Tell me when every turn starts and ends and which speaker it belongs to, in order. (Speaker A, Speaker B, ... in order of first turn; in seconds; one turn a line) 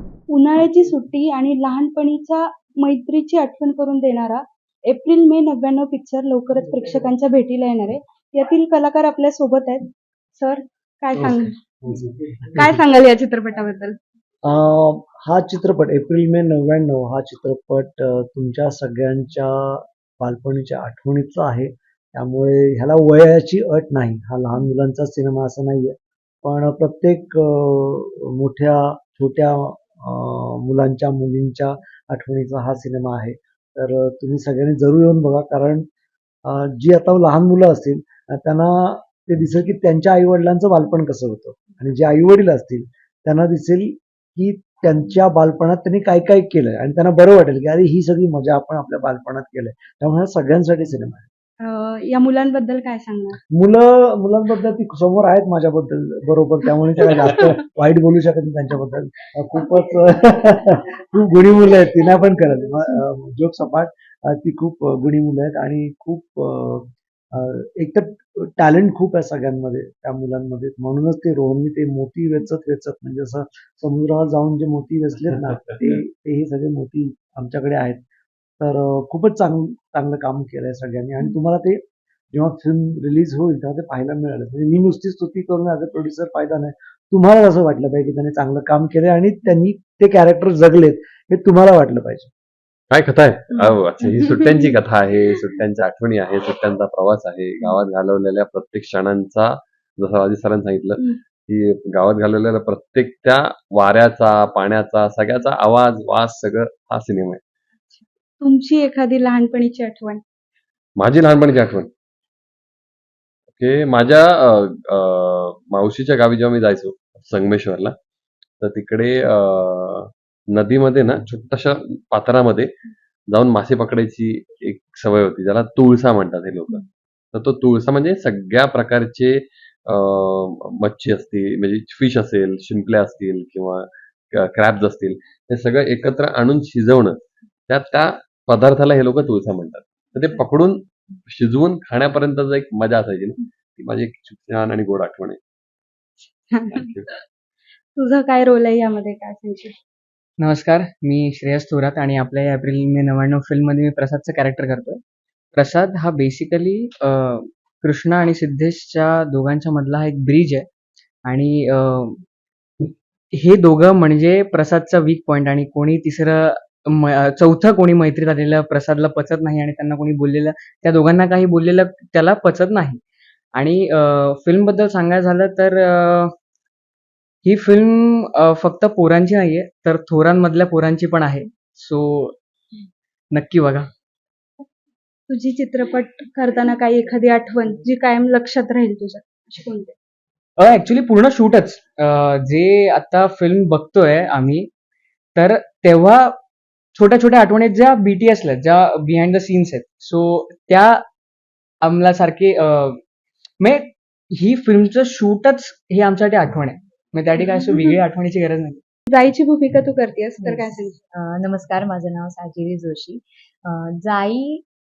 Speaker A: 0.3-12.1
Speaker A: 12.6-14.0
Speaker B: 14.4-35.9
Speaker B: 36.5-51.3
Speaker A: 51.6-53.4
Speaker B: 53.5-78.0
Speaker B: 78.6-92.3
Speaker C: 92.9-107.4
Speaker A: 108.4-110.2
Speaker C: 111.0-111.9
Speaker C: 113.6-117.9
Speaker C: 118.6-122.7
Speaker C: 123.3-126.8
Speaker C: 127.3-137.2
Speaker C: 137.7-145.4
Speaker C: 146.7-147.1
Speaker A: 148.0-149.8
Speaker D: 150.4-155.0
Speaker D: 155.5-160.7
Speaker D: 161.2-162.2
Speaker D: 163.3-173.0
Speaker D: 173.5-176.3
Speaker D: 177.4-182.3
Speaker D: 183.3-183.9
Speaker A: 185.3-189.9
Speaker D: 190.6-194.7
Speaker D: 195.3-196.4
Speaker D: 196.9-201.0
Speaker D: 201.8-203.0
Speaker D: 203.6-208.8
Speaker A: 209.1-210.9
Speaker E: 210.4-214.6